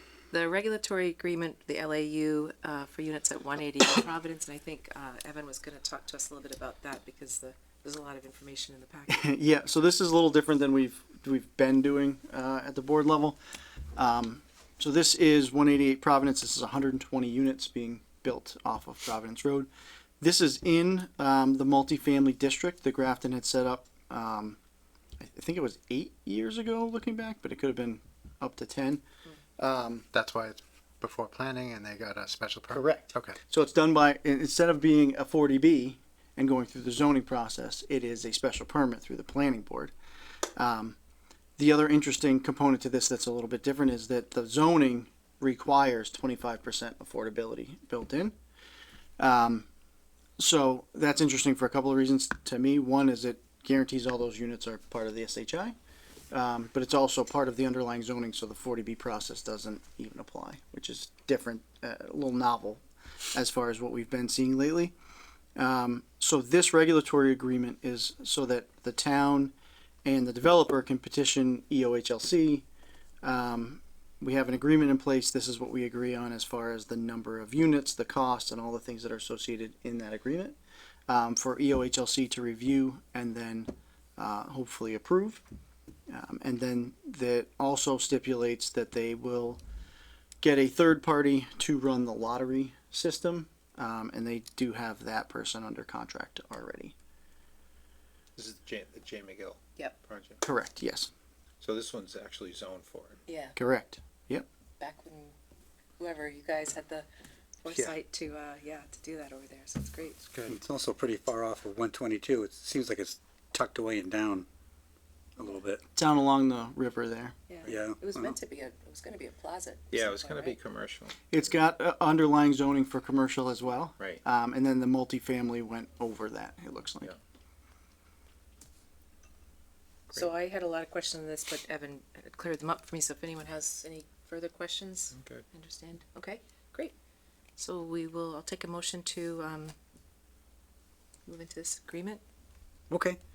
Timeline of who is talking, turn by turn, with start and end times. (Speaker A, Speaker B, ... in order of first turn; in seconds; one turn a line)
Speaker A: 0.3-9.3
Speaker B: 9.1-13.4
Speaker B: 14.0-19.7
Speaker B: 20.2-24.6
Speaker B: 25.2-29.0
Speaker B: 29.6-30.1
Speaker C: 30.1-33.4
Speaker B: 32.7-39.9
Speaker B: 40.6-41.0
Speaker B: 41.6-48.4
Speaker B: 49.2-49.7
Speaker B: 50.4-55.8
Speaker B: 56.3-62.8
Speaker B: 63.3-65.0
Speaker B: 65.6-69.5
Speaker B: 70.0-72.7
Speaker B: 73.2-80.6
Speaker B: 81.1-85.4
Speaker B: 86.1-89.6
Speaker B: 90.4-97.0
Speaker D: 98.4-100.4
Speaker B: 100.4-101.1
Speaker D: 101.6-103.2
Speaker A: 103.3-103.6
Speaker B: 103.6-104.5
Speaker A: 104.8-105.3
Speaker A: 106.0-107.1
Speaker A: 107.6-110.2
Speaker D: 110.2-110.6
Speaker E: 110.5-114.5
Speaker E: 115.4-115.8
Speaker B: 116.0-117.3
Speaker A: 117.5-120.6
Speaker E: 117.7-118.4
Speaker D: 119.9-121.2
Speaker B: 121.3-127.1
Speaker A: 130.1-136.9
Speaker D: 135.1-135.4
Speaker A: 137.6-139.8
Speaker A: 141.3-142.2
Speaker E: 142.9-143.2